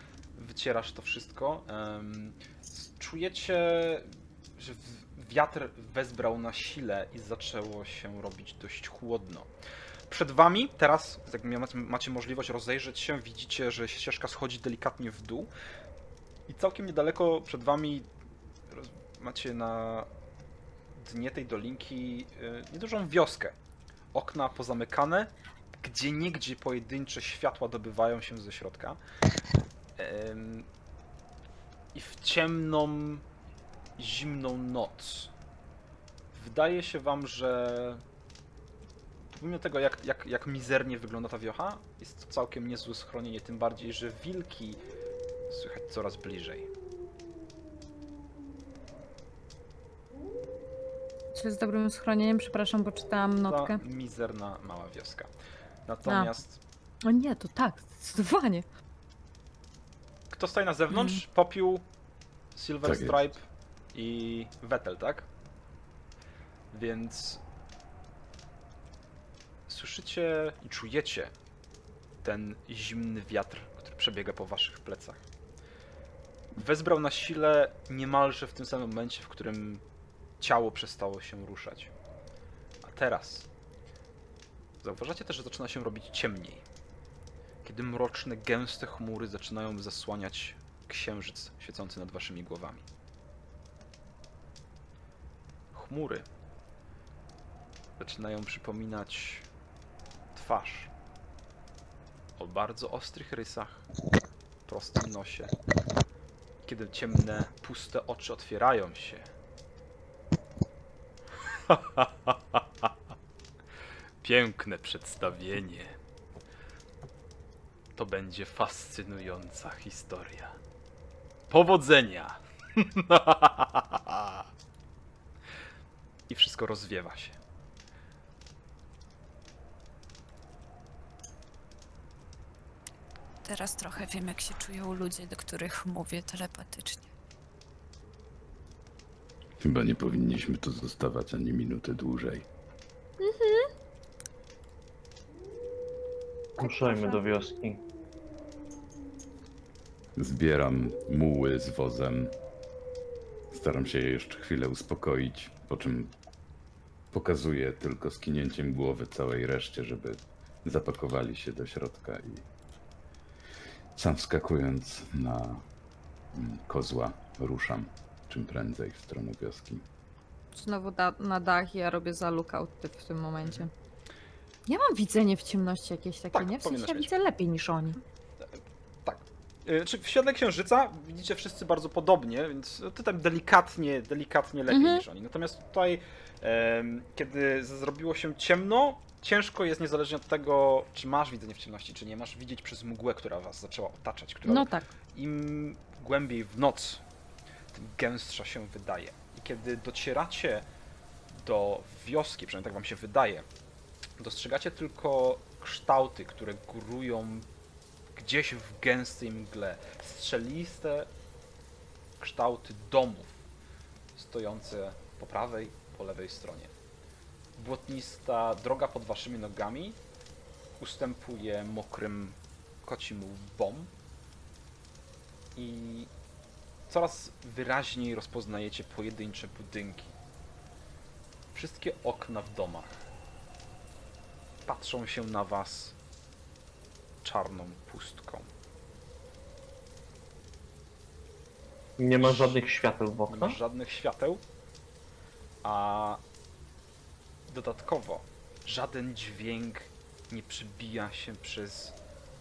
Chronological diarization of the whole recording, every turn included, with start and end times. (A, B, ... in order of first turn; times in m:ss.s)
0:00.4-0:09.5 A
0:10.1-0:15.5 A
0:16.5-0:18.1 A
0:18.7-0:20.1 A
0:20.9-0:23.5 A
0:24.1-0:29.0 A
0:30.0-0:30.7 A
0:31.9-0:33.2 A
0:34.0-0:35.3 A
0:36.3-0:38.0 A
0:39.4-0:44.8 A
0:45.5-0:46.7 A
0:51.3-0:53.8 B
0:53.4-0:55.3 A
0:55.8-0:56.6 A
0:56.0-0:56.3 B
0:57.0-0:58.6 B
1:00.3-1:01.8 A
1:00.9-1:01.2 B
1:02.5-1:03.4 A
1:02.8-1:03.2 C
1:03.9-1:05.3 A
1:06.7-1:07.4 A
1:09.7-1:11.3 A
1:12.2-1:15.2 A
1:16.6-1:19.8 A
1:20.4-1:21.9 A
1:22.8-1:23.5 A
1:24.8-1:26.6 A
1:27.6-1:32.8 A
1:35.7-1:36.2 A
1:38.0-1:39.4 A
1:40.3-1:40.9 A
1:42.4-1:43.8 A
1:44.7-1:45.5 A
1:46.6-1:49.3 A
1:51.7-1:52.6 A
1:54.2-1:55.9 A
1:58.0-2:00.6 A
2:01.5-2:04.4 A
2:06.3-2:07.4 A
2:13.4-2:17.1 D
2:19.6-2:22.4 C
2:23.2-2:23.7 B
2:26.6-2:27.8 E
2:26.6-2:27.2 B
2:30.2-2:32.4 C
2:33.5-2:36.1 C
2:37.1-2:42.4 C
2:44.0-2:45.6 C
2:46.3-2:49.8 C
2:50.5-2:53.7 B
2:53.4-2:53.7 A
2:54.7-2:58.0 B
2:56.3-2:57.1 A
2:58.5-3:17.0 A
3:04.7-3:05.0 B
3:14.4-3:14.9 B
3:17.7-3:20.6 A
3:21.3-3:23.4 A
3:24.2-3:27.5 A
3:28.2-3:31.1 A
3:32.2-3:33.4 A
3:34.2-3:36.7 A
3:37.6-3:40.0 A
3:40.8-3:43.9 A
3:45.6-3:46.1 A
3:46.9-3:50.1 A
3:51.5-3:53.0 A
3:54.6-3:56.0 A
3:57.2-3:58.5 A
4:02.0-4:03.6 E
4:02.2-4:02.6 A
4:03.3-4:04.4 A
4:05.6-4:06.2 A
4:07.5-4:11.9 A